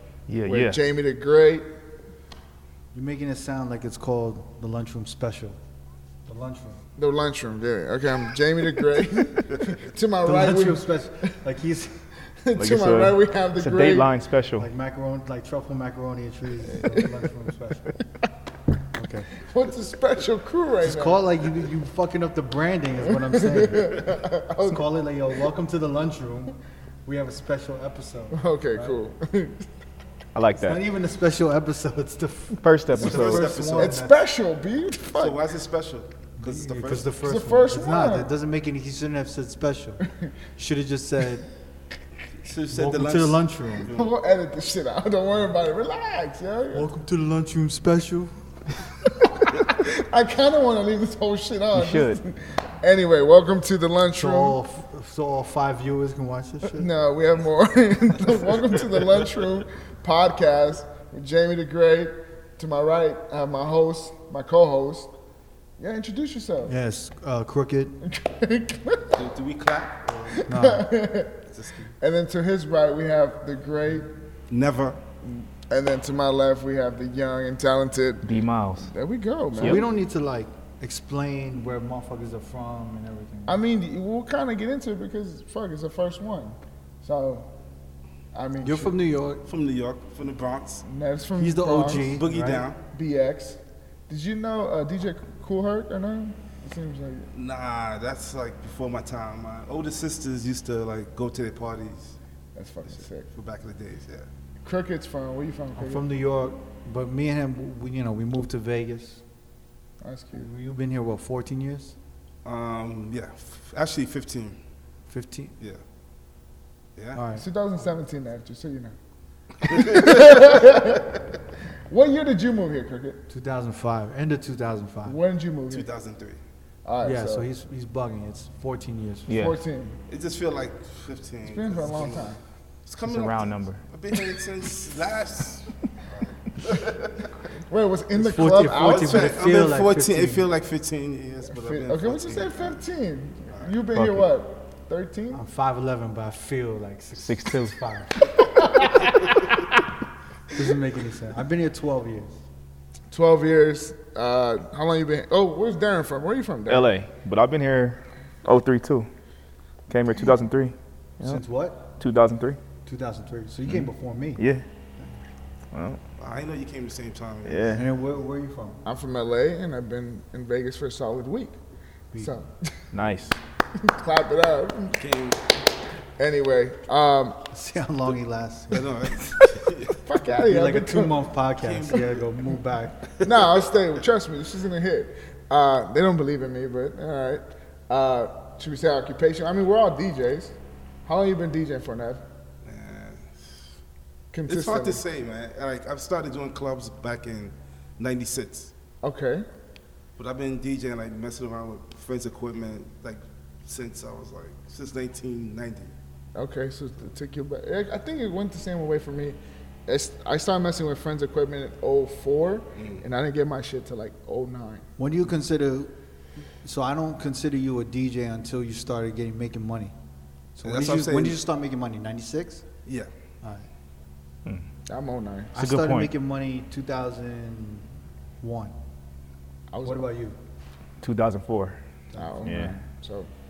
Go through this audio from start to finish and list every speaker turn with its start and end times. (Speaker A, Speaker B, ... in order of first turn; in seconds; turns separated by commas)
Speaker A: 0.3-0.8, Speaker B: 0.4-1.7, Speaker C: 2.9-5.6, Speaker C: 6.3-6.8, Speaker B: 7.0-10.9, Speaker C: 10.2-12.0, Speaker B: 12.4-14.1, Speaker A: 12.6-14.7, Speaker C: 14.6-18.0, Speaker B: 16.8-17.2, Speaker C: 18.9-19.3, Speaker B: 19.4-21.2, Speaker C: 20.8-24.0, Speaker B: 23.3-24.9, Speaker C: 24.6-29.0, Speaker B: 28.3-29.7, Speaker A: 30.4-30.8, Speaker C: 30.6-34.1, Speaker A: 32.6-33.5, Speaker D: 33.0-34.0, Speaker B: 33.7-35.4, Speaker D: 35.1-37.1, Speaker C: 36.4-40.0, Speaker B: 37.2-38.3, Speaker C: 40.6-41.5, Speaker D: 42.4-44.2, Speaker C: 42.7-43.9, Speaker B: 43.9-46.9, Speaker C: 46.7-48.4, Speaker B: 49.0-54.6, Speaker A: 51.7-52.2, Speaker C: 54.2-56.9, Speaker B: 56.7-65.1, Speaker B: 65.8-66.8, Speaker C: 66.7-68.0, Speaker B: 68.0-69.2, Speaker D: 69.1-70.4, Speaker B: 70.3-71.5, Speaker C: 70.5-70.9, Speaker D: 71.5-71.9, Speaker B: 72.0-74.1, Speaker D: 74.5-75.0, Speaker B: 75.2-79.8, Speaker A: 78.2-78.9, Speaker A: 79.6-79.9, Speaker C: 79.6-83.6, Speaker B: 83.5-87.5, Speaker B: 88.3-89.0, Speaker C: 88.6-89.5, Speaker D: 89.5-90.8, Speaker B: 90.8-92.2, Speaker C: 91.4-92.7, Speaker D: 92.1-92.8, Speaker B: 92.9-97.3, Speaker D: 97.3-102.2, Speaker B: 102.5-103.3, Speaker D: 102.9-104.3, Speaker B: 104.6-106.0, Speaker C: 105.8-109.2, Speaker B: 110.0-110.5, Speaker C: 110.3-112.0, Speaker D: 112.5-114.6, Speaker C: 115.1-115.5, Speaker D: 117.0-117.2, Speaker C: 117.1-117.5, Speaker B: 117.3-119.0, Speaker B: 119.6-121.2, Speaker D: 119.6-120.6, Speaker B: 121.9-123.2, Speaker C: 123.3-125.2, Speaker B: 125.0-125.9, Speaker D: 125.7-126.4, Speaker B: 126.8-127.5, Speaker C: 127.0-129.4, Speaker A: 129.3-129.6, Speaker B: 129.3-130.0, Speaker D: 130.1-132.3, Speaker B: 131.4-132.4, Speaker D: 132.9-137.3, Speaker A: 133.0-133.8, Speaker B: 137.7-139.3, Speaker C: 138.2-140.5, Speaker D: 138.7-142.8, Speaker B: 141.5-145.4, Speaker D: 143.5-143.8, Speaker A: 143.9-144.3, Speaker C: 145.3-148.3, Speaker A: 147.2-147.8, Speaker C: 150.5-152.4, Speaker B: 153.1-156.9, Speaker A: 156.7-159.1, Speaker A: 159.9-161.4, Speaker C: 161.2-161.9, Speaker A: 162.0-162.6, Speaker C: 162.8-164.4, Speaker A: 164.4-164.7, Speaker A: 165.7-166.0, Speaker D: 166.2-167.7, Speaker A: 167.4-167.9, Speaker C: 167.7-168.8, Speaker B: 168.8-171.6, Speaker B: 172.2-172.8, Speaker A: 172.9-173.4, Speaker B: 173.8-175.0, Speaker D: 174.9-175.4, Speaker B: 176.2-177.4, Speaker C: 177.5-179.4, Speaker D: 178.7-180.0, Speaker B: 180.0-181.2, Speaker C: 180.4-183.0, Speaker D: 181.6-182.4, Speaker D: 183.2-183.7, Speaker B: 183.2-192.2, Speaker D: 192.6-193.6, Speaker B: 194.3-195.0, Speaker D: 194.5-198.7, Speaker B: 199.0-199.5, Speaker D: 200.2-205.9, Speaker B: 206.3-214.9, Speaker D: 212.8-213.1, Speaker C: 215.0-215.9, Speaker C: 216.6-219.9, Speaker C: 220.6-222.6, Speaker D: 220.7-221.4, Speaker B: 224.9-225.5, Speaker C: 225.5-228.8, Speaker A: 225.6-226.1, Speaker B: 229.7-230.1, Speaker C: 229.8-230.4, Speaker A: 231.0-231.8, Speaker B: 232.1-233.3, Speaker A: 232.4-232.8